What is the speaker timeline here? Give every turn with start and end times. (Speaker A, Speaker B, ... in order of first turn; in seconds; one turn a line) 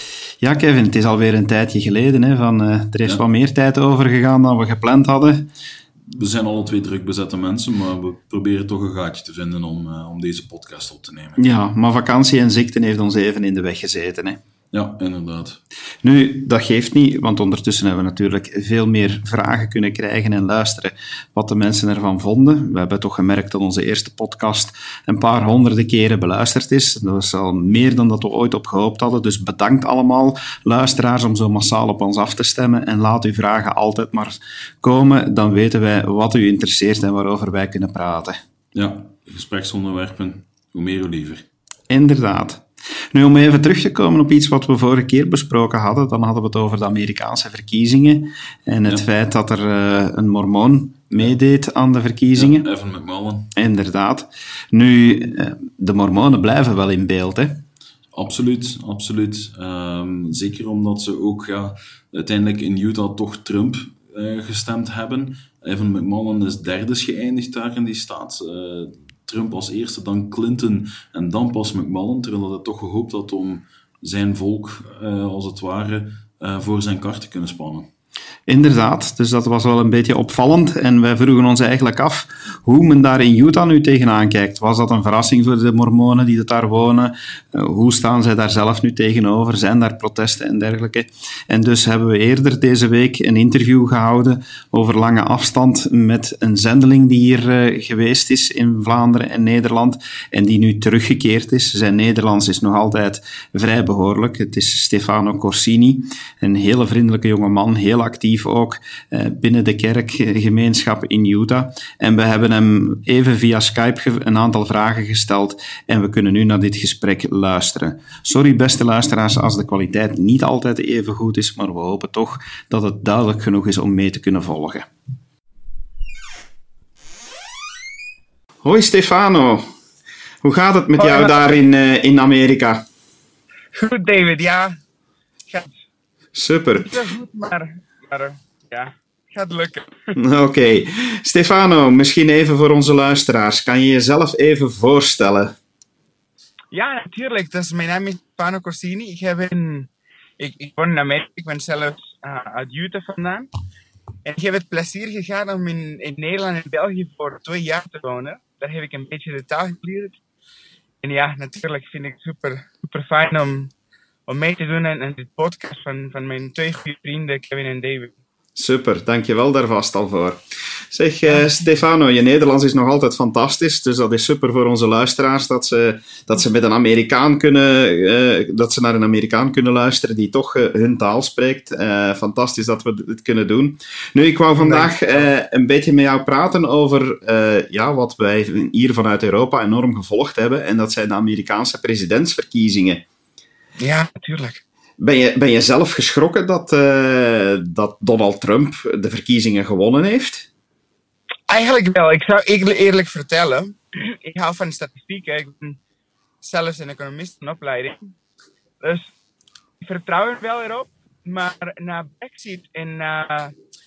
Speaker A: 0.4-5.5
Speaker B: 6.1-11.4
Speaker A: 11.4-14.4
Speaker B: 14.7-15.6
Speaker A: 16.0-38.4
Speaker B: 38.7-41.5
Speaker A: 41.9-52.7
Speaker B: 52.4-53.5
Speaker A: 53.5-57.6
Speaker B: 58.1-77.9
Speaker A: 78.5-124.9
Speaker A: 128.6-129.7
Speaker A: 130.4-132.8
Speaker C: 131.0-131.4
Speaker C: 133.7-134.8
Speaker C: 135.5-135.8
Speaker A: 136.3-136.9
Speaker C: 136.8-140.2
Speaker A: 140.2-145.6
Speaker C: 146.7-153.5
Speaker C: 154.2-160.2
Speaker C: 161.0-163.7
Speaker C: 164.3-168.1
Speaker A: 168.6-170.4
Speaker A: 170.9-193.0
Speaker C: 171.3-171.6
Speaker C: 184.5-185.3
Speaker C: 193.8-194.6
Speaker A: 195.0-200.5
Speaker C: 201.5-205.8
Speaker C: 206.4-208.1
Speaker C: 208.8-209.1
Speaker C: 209.8-213.5